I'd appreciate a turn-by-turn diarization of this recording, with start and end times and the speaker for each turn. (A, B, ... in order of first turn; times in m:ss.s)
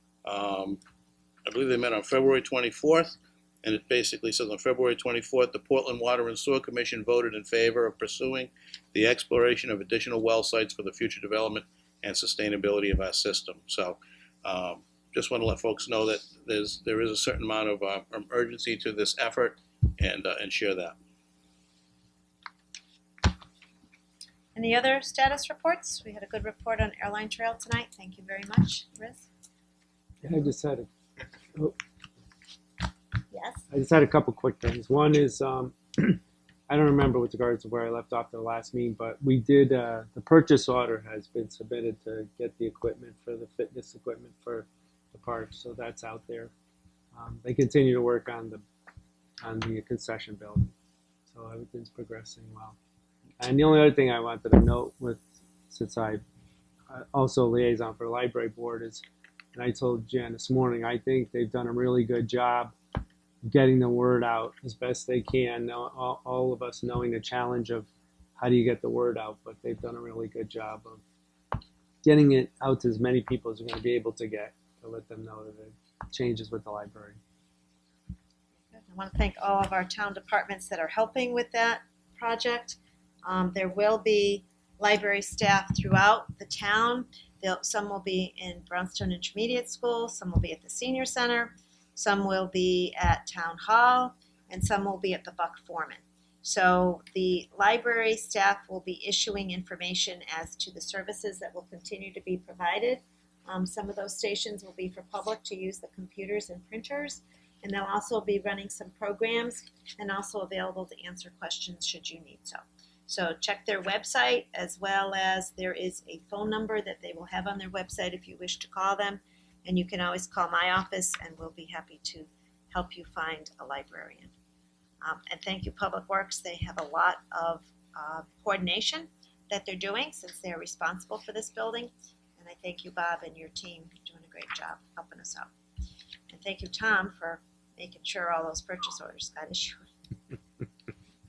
0:00.2-0:00.8 A
0:01.4-0:21.0 A
0:24.5-0:29.2 B
0:30.2-0:30.9 C
0:33.3-0:33.6 B
0:33.7-0:46.5 C
0:47.1-0:48.6 C
0:49.4-0:50.7 C
0:51.3-0:52.8 C
0:53.4-0:56.2 C
0:56.9-0:59.0 C
0:59.5-1:02.7 C
1:03.4-1:07.9 C
1:08.4-1:11.0 C
1:12.0-1:17.2 C
1:18.7-2:04.3 B
2:05.0-2:15.5 B
2:16.3-2:19.8 B